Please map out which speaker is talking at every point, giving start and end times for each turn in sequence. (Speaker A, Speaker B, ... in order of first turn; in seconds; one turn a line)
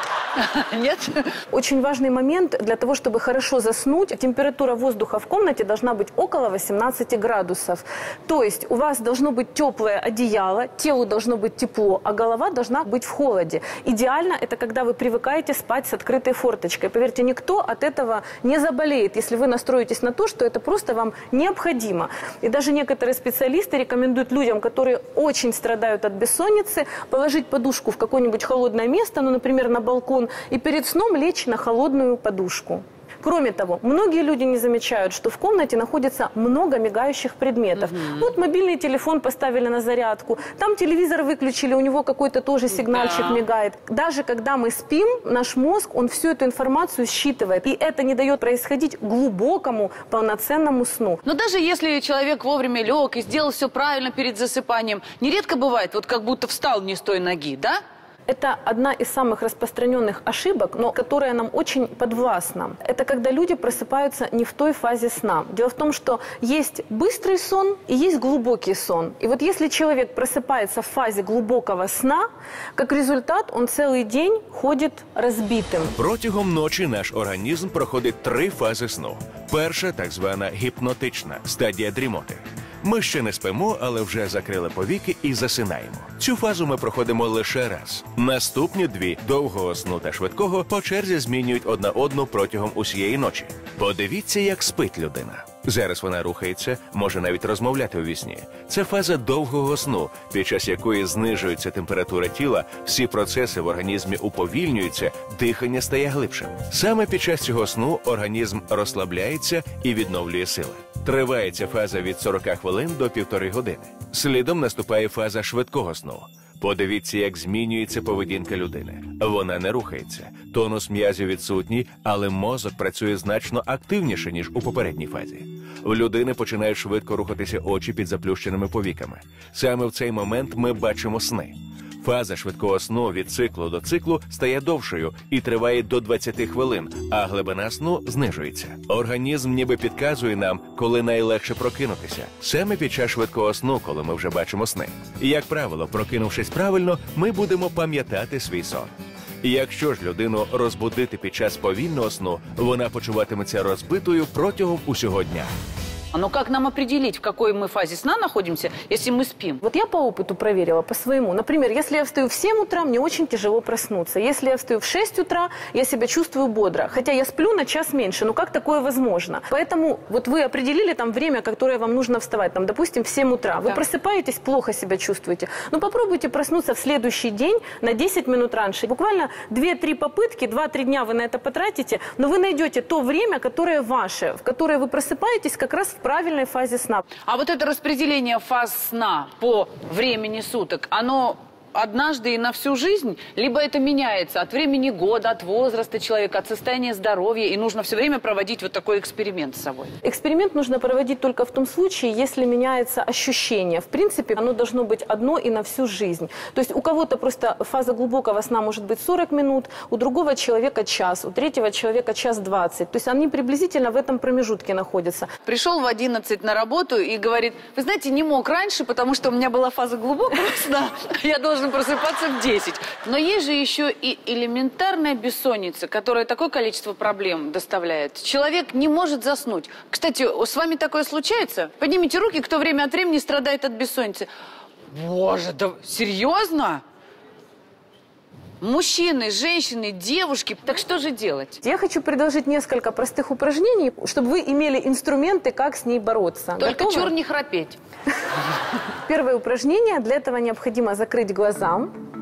Speaker A: 0.4-1.3
Speaker B: 1.5-51.2
Speaker A: 37.8-38.3
Speaker A: 42.8-43.4
Speaker A: 51.2-57.8
Speaker B: 58.3-76.0
Speaker C: 76.0-155.5
Speaker A: 156.1-159.6
Speaker B: 159.6-187.0
Speaker A: 187.3-199.9
Speaker B: 200.0-215.3
Speaker A: 215.5-234.3
Speaker A: 234.9-236.8
Speaker A: 238.6-241.6
Speaker B: 241.6-247.1
Speaker A: 246.6-247.8
Speaker B: 249.1-251.9